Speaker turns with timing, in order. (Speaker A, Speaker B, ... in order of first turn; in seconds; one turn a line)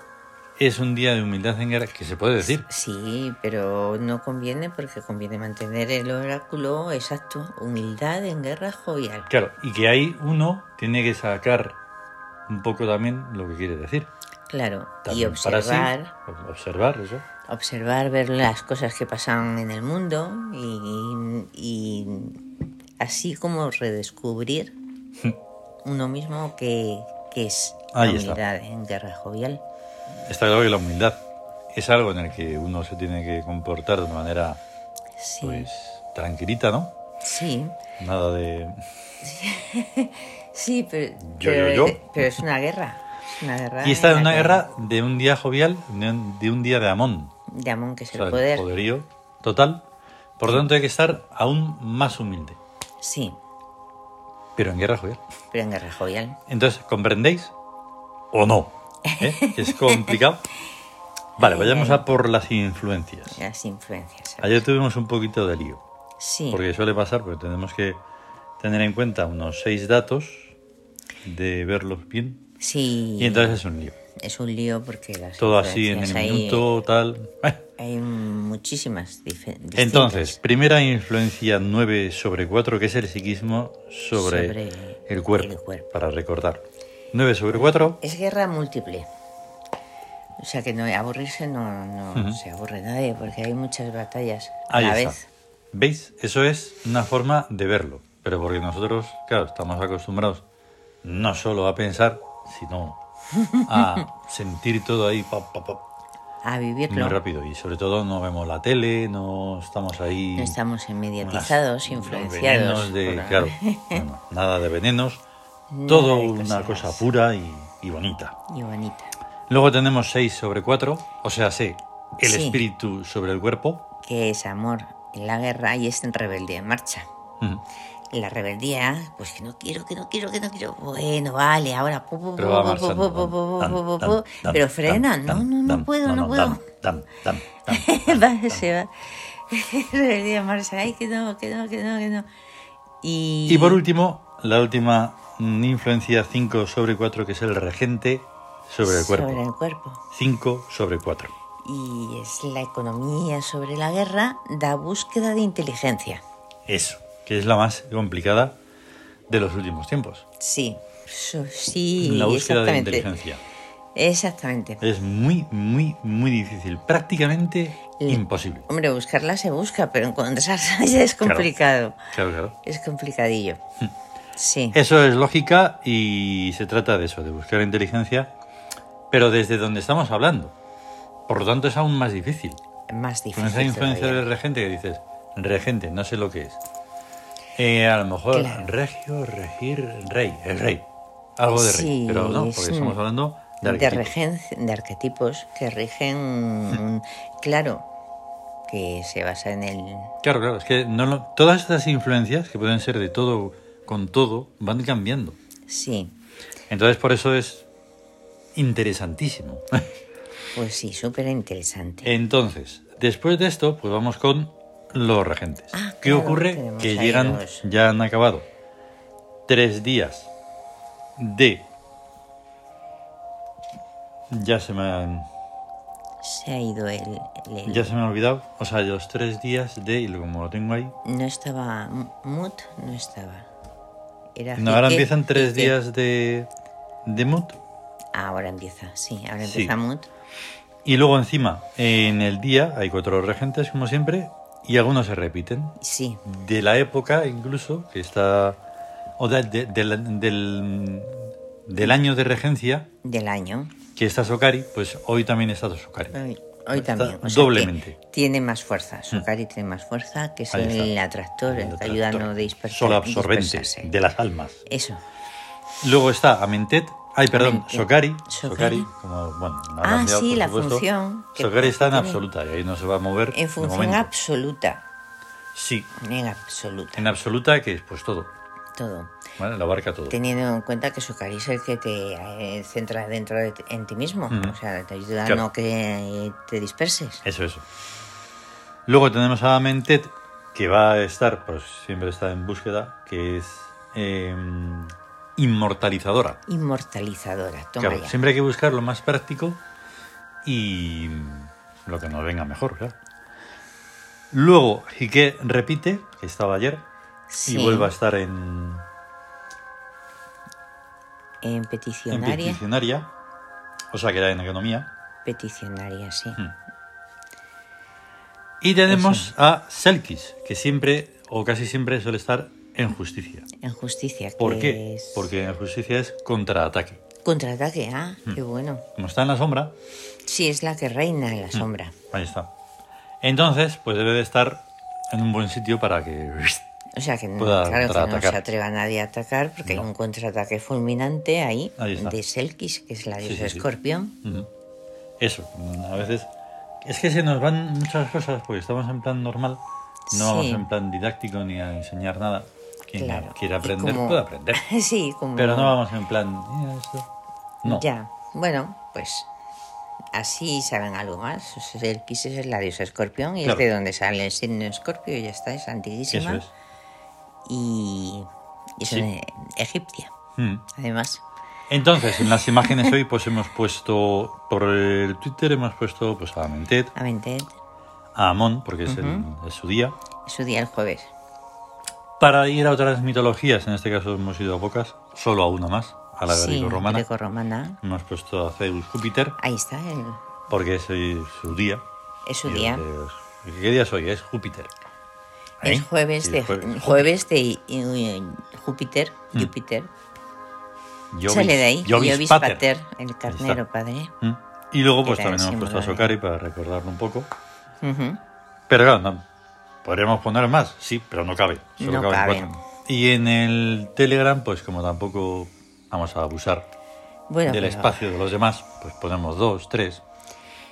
Speaker A: 0.6-2.6
Speaker B: 2.4-9.3
Speaker A: 9.3-11.8
Speaker A: 12.5-14.1
Speaker B: 14.5-16.1
Speaker A: 15.0-17.2
Speaker B: 17.5-22.4
Speaker B: 23.0-24.7
Speaker B: 25.8-29.6
Speaker A: 27.9-28.4
Speaker A: 30.2-34.6
Speaker B: 35.2-35.7
Speaker A: 35.4-36.9
Speaker B: 37.2-37.8
Speaker A: 38.0-38.8
Speaker B: 39.2-44.7
Speaker A: 41.2-42.4
Speaker A: 43.8-47.3
Speaker B: 47.5-48.6
Speaker A: 48.1-49.8
Speaker A: 50.4-52.6
Speaker B: 53.0-53.4
Speaker A: 54.5-55.2
Speaker B: 55.5-56.4
Speaker A: 56.5-57.5
Speaker A: 58.3-60.5
Speaker B: 59.0-60.2
Speaker B: 61.4-62.0
Speaker A: 61.4-63.4
Speaker B: 63.3-64.6
Speaker A: 64.4-65.8
Speaker B: 66.2-66.6
Speaker A: 66.5-68.0
Speaker A: 68.6-70.5
Speaker A: 71.2-72.4
Speaker B: 72.6-73.6
Speaker A: 73.2-74.0
Speaker B: 74.2-76.7
Speaker A: 75.4-77.6
Speaker B: 77.8-80.4
Speaker A: 79.7-84.6
Speaker B: 84.1-85.9
Speaker A: 85.1-88.0
Speaker B: 87.5-89.1
Speaker B: 90.4-95.3
Speaker A: 92.1-92.4
Speaker A: 94.7-95.2
Speaker A: 95.7-100.4
Speaker A: 101.0-103.0
Speaker B: 103.3-104.0
Speaker A: 103.7-105.8
Speaker B: 106.4-107.2
Speaker A: 106.9-110.5
Speaker B: 110.3-114.0
Speaker A: 111.2-115.2
Speaker B: 115.7-117.0
Speaker A: 115.9-118.3
Speaker B: 118.5-119.1
Speaker A: 119.5-123.8
Speaker B: 122.2-122.6
Speaker B: 124.0-127.0
Speaker B: 128.1-136.6
Speaker A: 132.4-138.6
Speaker B: 137.7-142.3
Speaker B: 143.0-143.8
Speaker A: 143.5-149.4
Speaker B: 148.8-150.0
Speaker A: 150.1-151.3
Speaker B: 151.6-156.2
Speaker A: 156.7-158.6
Speaker A: 159.3-160.2
Speaker B: 160.4-163.1
Speaker A: 162.0-163.4
Speaker B: 163.9-164.8
Speaker A: 164.8-168.7
Speaker B: 168.0-172.0
Speaker A: 171.2-171.5
Speaker A: 172.1-172.5
Speaker B: 172.6-173.6
Speaker B: 174.3-174.8
Speaker A: 174.7-178.3
Speaker A: 179.1-180.5
Speaker A: 181.3-182.6
Speaker B: 182.9-184.2
Speaker A: 183.3-186.6
Speaker A: 187.6-190.8
Speaker B: 188.3-188.7
Speaker A: 191.4-194.1
Speaker B: 191.5-193.0
Speaker B: 193.6-197.8
Speaker B: 198.7-200.1
Speaker A: 200.2-205.4
Speaker B: 205.7-206.1
Speaker A: 206.7-207.7
Speaker A: 208.5-209.8
Speaker B: 210.5-212.1
Speaker A: 212.0-218.5
Speaker B: 215.7-217.6
Speaker A: 219.5-220.3
Speaker A: 221.2-221.7
Speaker A: 224.3-225.3
Speaker B: 226.2-227.9
Speaker A: 227.7-230.9
Speaker B: 231.0-233.5
Speaker B: 234.3-235.7
Speaker A: 234.6-236.5
Speaker A: 237.0-237.6
Speaker B: 238.1-240.1
Speaker A: 239.4-239.7
Speaker A: 240.8-248.6
Speaker B: 245.8-246.2
Speaker A: 249.2-252.9
Speaker B: 253.0-253.8
Speaker A: 253.9-256.2
Speaker B: 256.1-263.9
Speaker A: 256.7-258.0
Speaker A: 260.5-264.6
Speaker B: 264.6-265.0
Speaker A: 265.8-274.1
Speaker B: 267.3-268.9
Speaker B: 269.8-272.2
Speaker B: 273.3-274.8
Speaker A: 275.5-275.9
Speaker B: 276.0-277.1
Speaker A: 276.9-278.3
Speaker B: 278.8-279.1
Speaker A: 279.4-280.2
Speaker B: 280.1-287.2
Speaker A: 284.3-284.6
Speaker A: 287.2-287.6
Speaker A: 288.9-296.4
Speaker B: 296.4-298.2
Speaker A: 297.8-299.6
Speaker A: 300.4-302.9
Speaker A: 304.3-306.8
Speaker B: 307.3-307.9
Speaker A: 307.4-308.8
Speaker B: 311.4-312.6
Speaker A: 312.1-313.1
Speaker A: 313.9-314.9
Speaker B: 315.2-316.4
Speaker A: 318.6-323.5
Speaker B: 318.9-319.3
Speaker B: 323.6-325.3
Speaker A: 324.4-327.0
Speaker B: 327.2-328.8
Speaker A: 328.9-329.7
Speaker B: 330.2-331.9
Speaker A: 331.5-332.5
Speaker A: 333.2-336.6
Speaker B: 336.9-344.1
Speaker A: 337.4-338.4
Speaker A: 341.8-342.1
Speaker A: 343.2-343.6
Speaker A: 345.2-346.3
Speaker A: 346.8-349.6
Speaker B: 350.1-350.6
Speaker A: 350.1-354.6
Speaker B: 353.0-355.8
Speaker A: 355.4-357.1
Speaker B: 357.6-359.3
Speaker B: 360.1-366.4
Speaker A: 366.1-366.5
Speaker B: 367.4-368.3
Speaker B: 368.8-370.1
Speaker A: 370.4-370.6
Speaker B: 370.7-371.2
Speaker A: 371.7-376.9
Speaker B: 372.1-372.9
Speaker B: 376.9-377.6
Speaker A: 378.1-379.9
Speaker B: 378.9-379.2
Speaker B: 380.2-381.1
Speaker A: 382.2-387.1
Speaker B: 386.3-387.8
Speaker A: 387.8-389.4
Speaker B: 389.4-390.2
Speaker A: 390.5-391.8
Speaker B: 392.2-392.8
Speaker A: 392.4-394.7
Speaker A: 395.6-397.2
Speaker B: 395.6-399.9
Speaker A: 401.1-402.6
Speaker B: 401.3-404.1
Speaker A: 403.3-403.6
Speaker A: 404.2-407.3
Speaker B: 405.0-406.1
Speaker B: 407.8-408.2
Speaker A: 408.7-409.2
Speaker A: 409.8-416.7
Speaker B: 411.8-412.6
Speaker B: 417.3-418.0
Speaker A: 417.4-420.0